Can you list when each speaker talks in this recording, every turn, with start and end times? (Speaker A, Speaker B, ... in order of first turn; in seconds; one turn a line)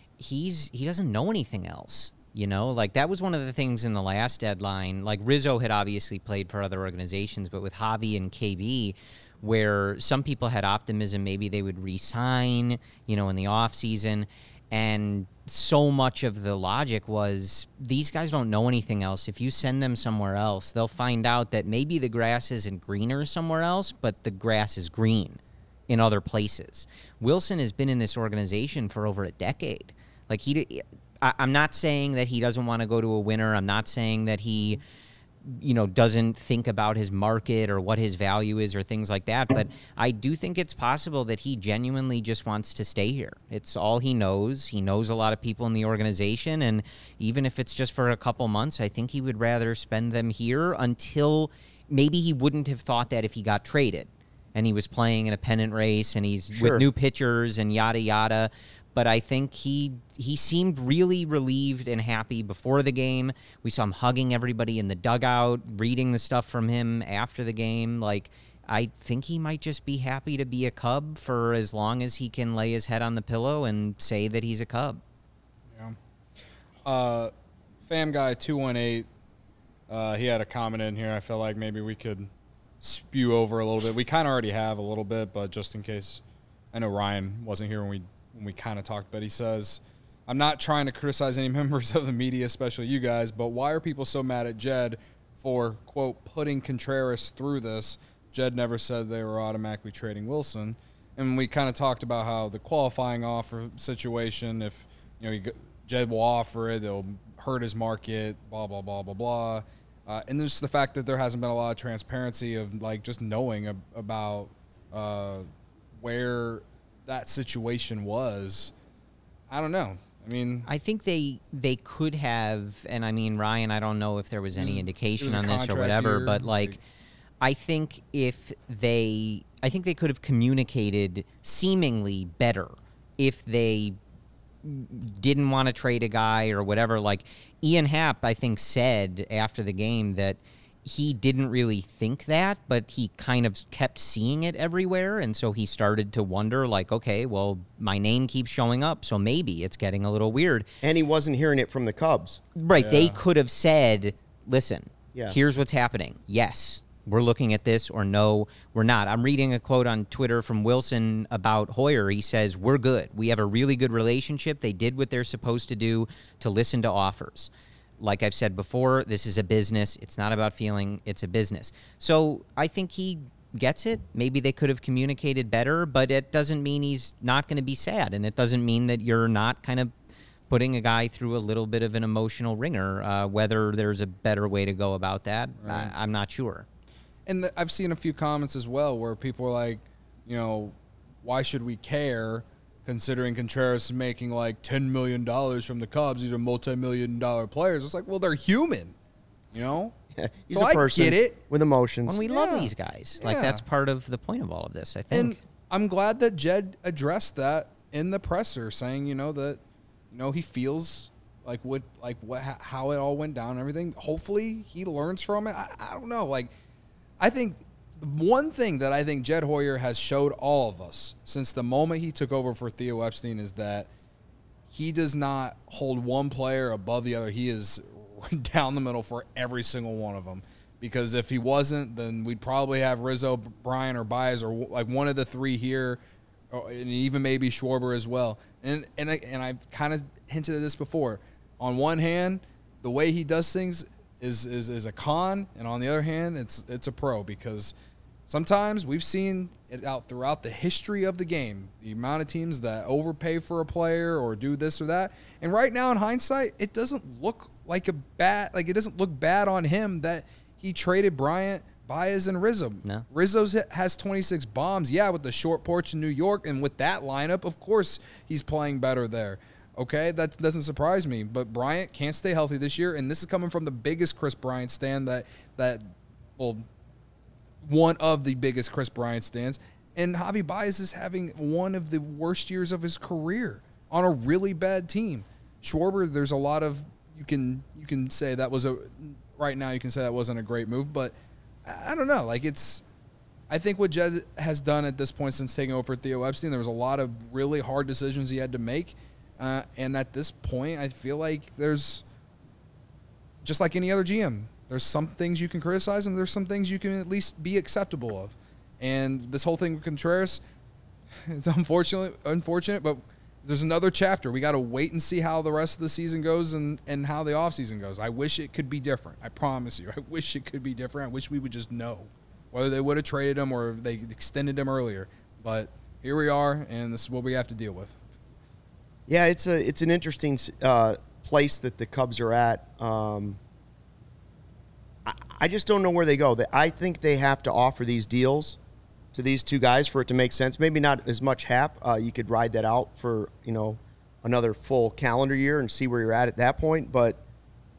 Speaker A: 0.2-34.8
Speaker A: 35.4-75.0
Speaker B: 56.5-56.8
Speaker C: 76.8-77.3
Speaker C: 77.9-79.1
Speaker C: 79.9-82.3
Speaker C: 82.8-86.2
Speaker C: 86.7-118.7
Speaker C: 119.5-120.7
Speaker A: 120.7-126.8
Speaker C: 124.5-126.8
Speaker A: 127.4-134.0
Speaker A: 134.6-150.7
Speaker B: 150.8-152.4
Speaker A: 152.6-179.9
Speaker C: 152.8-153.2
Speaker A: 180.5-186.7
Speaker C: 185.6-185.9
Speaker C: 187.3-198.9
Speaker C: 199.5-199.9
Speaker B: 200.1-202.2
Speaker C: 200.5-201.4
Speaker A: 202.1-205.4
Speaker C: 202.2-203.6
Speaker C: 205.1-209.6
Speaker C: 210.1-216.5
Speaker C: 217.2-223.9
Speaker C: 224.7-236.0
Speaker C: 236.5-247.7
Speaker C: 248.3-276.6
Speaker C: 277.6-291.1
Speaker C: 291.6-292.8
Speaker C: 293.5-302.0
Speaker C: 303.4-310.4
Speaker C: 311.2-328.0
Speaker B: 329.1-333.4
Speaker B: 335.0-338.6
Speaker B: 339.1-347.2